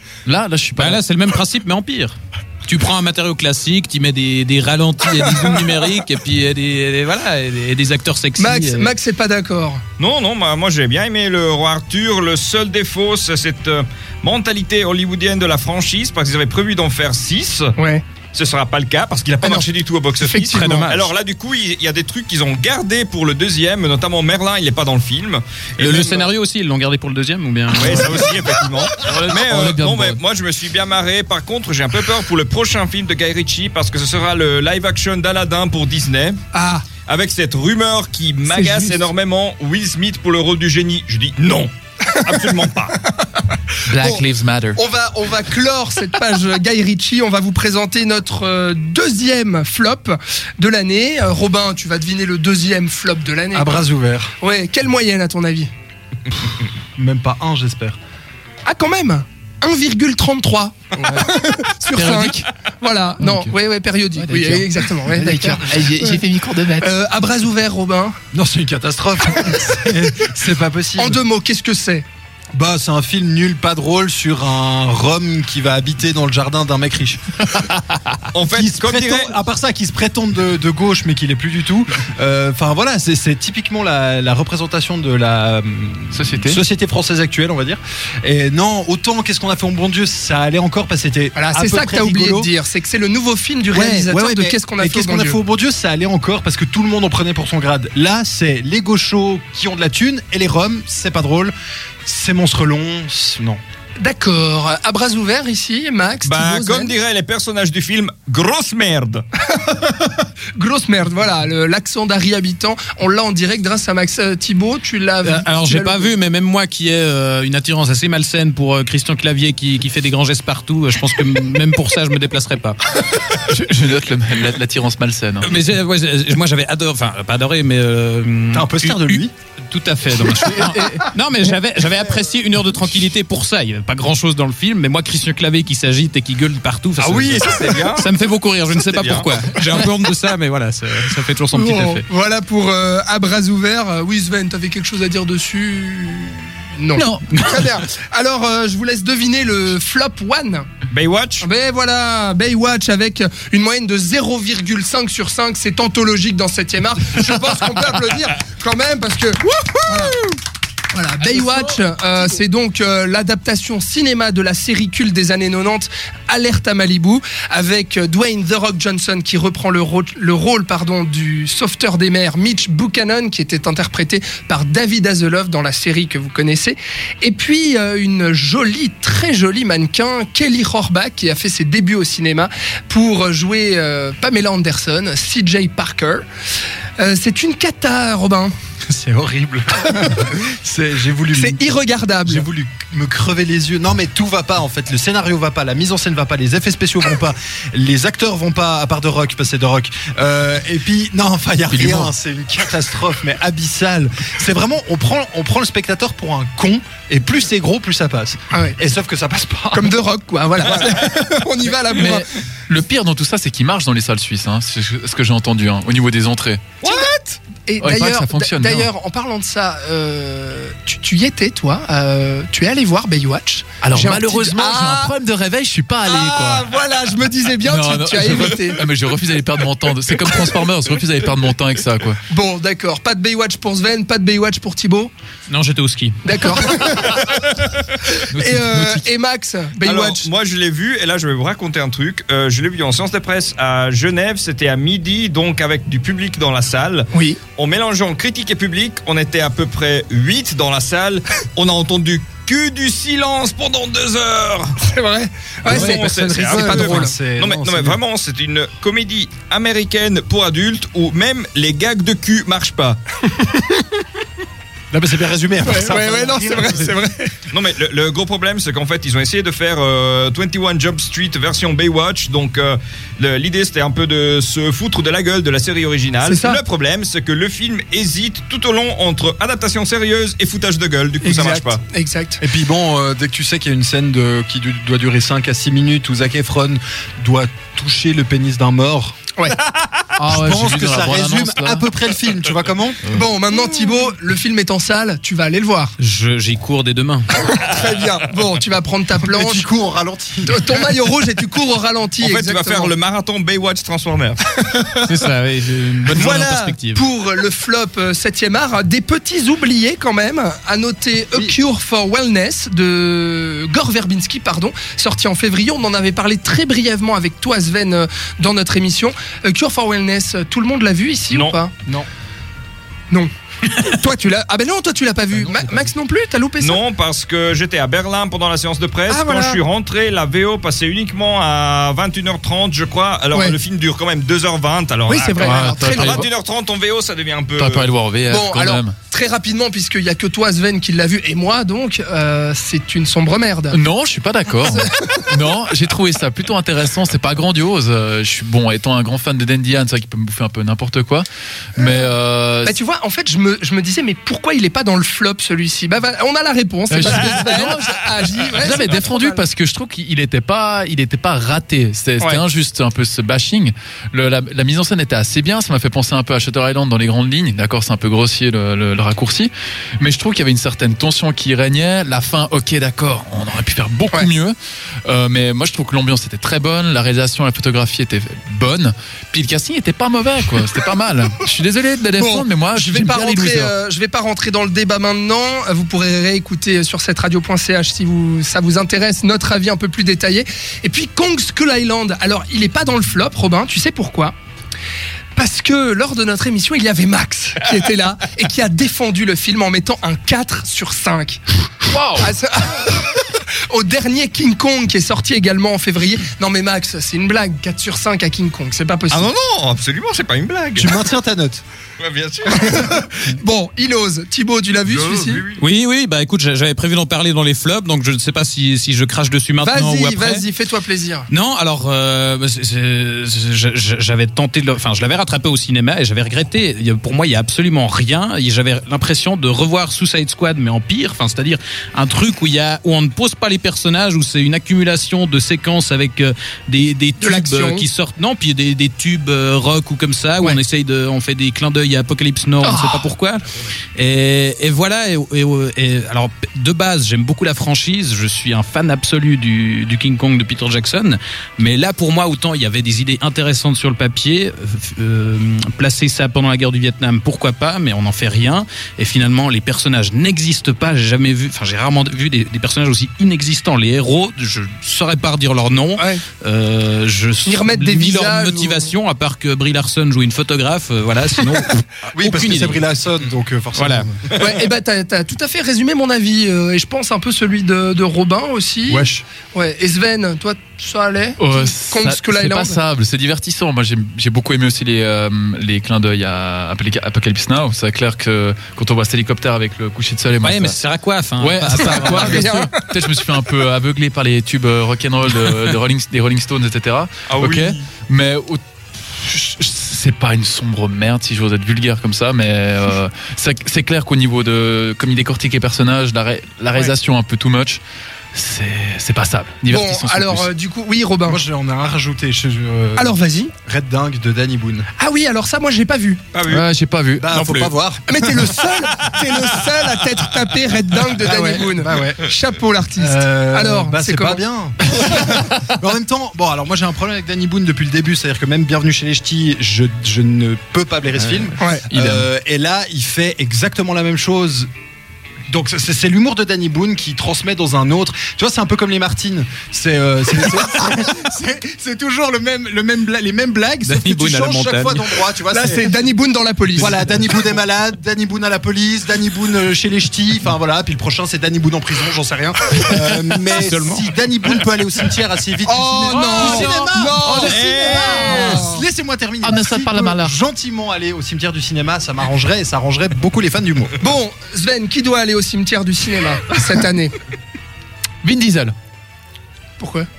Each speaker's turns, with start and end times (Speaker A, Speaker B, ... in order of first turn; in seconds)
Speaker A: 0.2-1.0, 29.1-30.2, 43.9-44.8, 63.2-63.5, 64.2-66.9, 86.1-86.6, 123.3-125.5, 130.6-131.0, 147.0-147.2, 201.7-202.1, 211.9-216.6, 217.8-218.9, 223.8-226.7, 227.7-232.2, 238.3-239.1, 290.2-291.9, 335.4-336.3, 337.6-338.9, 343.7-352.8, 356.9-358.0, 358.6-374.6, 375.1-383.7, 401.9-402.3, 481.4-490.8, 491.4-507.8, 508.3-510.5, 516.5-517.3, 531.9-532.3, 556.1-558.7, 559.4-560.4, 568.2-568.7
Speaker B: 0.8-8.9, 20.5-21.1, 25.8-28.4, 62.0-62.4, 115.2-122.8, 125.4-142.1, 147.4-147.7, 235.5-236.2, 296.0-297.3, 305.0-307.0, 415.6-420.4, 421.3-443.4, 444.0-472.8, 473.8-474.1, 490.4-492.5, 517.3-517.7, 543.9-545.1, 553.5-554.0
Speaker C: 8.4-9.8, 17.8-18.0, 19.4-20.8, 36.5-36.9, 38.5-39.0, 42.4-42.6, 43.9-53.8, 54.4-55.7, 58.6-66.2, 66.8-68.2, 71.0-72.0, 91.3-95.4, 104.0-106.9, 109.5-116.1, 141.5-150.7, 151.4-160.3, 160.9-186.2, 187.0-188.5, 191.3-192.5, 208.5-208.8, 209.7-212.3, 216.8-225.2, 226.1-228.8, 232.3-235.1, 236.2-237.3, 238.2-240.3, 247.1-247.4, 254.8-257.1, 263.4-263.8, 265.6-267.4, 276.2-276.6, 281.2-282.4, 293.1-295.9, 297.4-299.7, 300.4-302.9, 304.6-305.0, 306.1-321.7, 323.1-326.8, 329.1-329.6, 333.3-333.6, 335.1-336.3, 338.3-343.8, 344.7-345.2, 352.6-359.4, 382.2-394.3, 395.4-401.4, 402.2-409.3, 412.5-415.4, 419.6-421.3, 437.2-437.9, 442.6-443.1, 466.0-466.2, 467.4-468.9, 474.4-482.8, 492.0-492.7, 509.7-511.4, 513.0-513.5, 515.0-516.2, 518.1-524.4, 531.6-531.8, 545.5-547.0, 555.6-558.8, 564.0-567.1, 569.8-570.1
Speaker D: 10.0-17.7, 18.3-26.2, 27.7-36.4, 37.1-43.0, 78.3-79.4, 106.2-109.2, 137.0-138.1, 138.7-139.4, 150.9-151.5, 236.9-237.8, 239.8-254.8, 255.7-263.0, 267.5-281.8, 289.8-290.0, 302.2-304.4, 306.1-306.5, 321.3-321.6, 326.6-337.9, 409.1-410.9, 412.0-412.9, 414.9-415.6, 497.3-497.8, 516.3-516.6, 557.4-558.6
Speaker E: 53.5-54.3, 57.0-58.0, 68.3-71.2, 72.5-77.4, 78.5-92.5, 93.7-101.5, 102.0-103.6, 128.5-129.3, 188.9-210.0, 255.7-258.0, 264.9-266.9, 282.4-289.1, 290.3-293.0, 299.2-300.6, 410.8-411.6, 472.1-474.2, 478.9-479.2, 511.3-514.9, 517.2-518.5, 521.2-522.2, 523.0-534.7, 535.5-545.9, 546.8-564.0